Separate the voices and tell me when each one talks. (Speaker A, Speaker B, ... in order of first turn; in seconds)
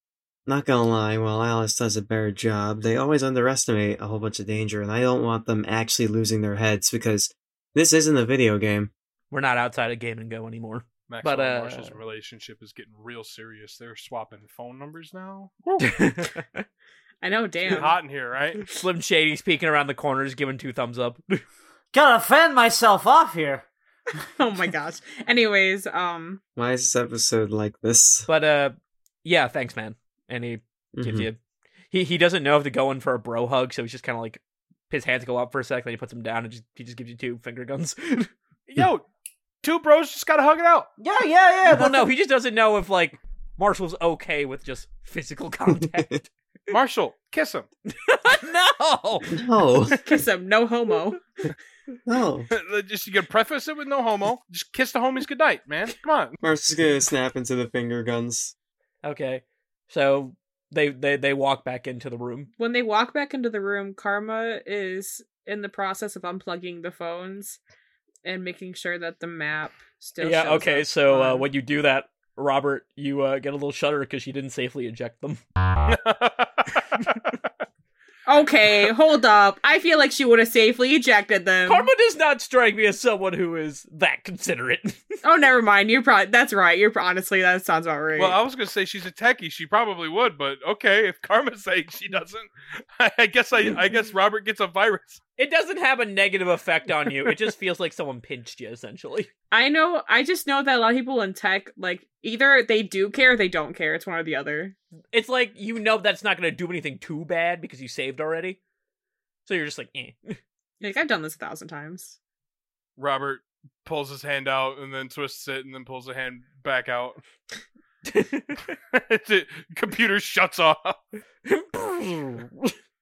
Speaker A: 0.5-8.9, 26.6-28.3, 31.0-31.3, 45.8-46.2, 49.3-50.0, 52.1-52.5, 56.4-58.5
Speaker B: 9.3-12.0, 15.8-16.6, 18.6-21.4, 28.3-31.4, 31.9-38.3, 41.7-46.1, 47.9-49.4, 59.0-62.5, 70.2-75.4, 81.7-85.0, 95.4-99.3, 105.1-108.6, 109.5-110.4, 118.1-118.6, 121.5-122.7
Speaker C: 11.1-16.0, 17.6-18.6, 38.7-39.0, 39.6-40.9, 46.7-47.7, 52.5-56.4, 75.9-77.3, 88.2-95.2, 113.0-117.2, 118.9-121.0
Speaker D: 17.2-17.9, 24.4-26.4, 50.0-51.2, 62.6-67.6, 68.2-71.5, 78.3-81.9, 85.2-88.4, 99.5-104.8, 110.8-112.2
Speaker E: 21.9-23.7, 41.0-42.1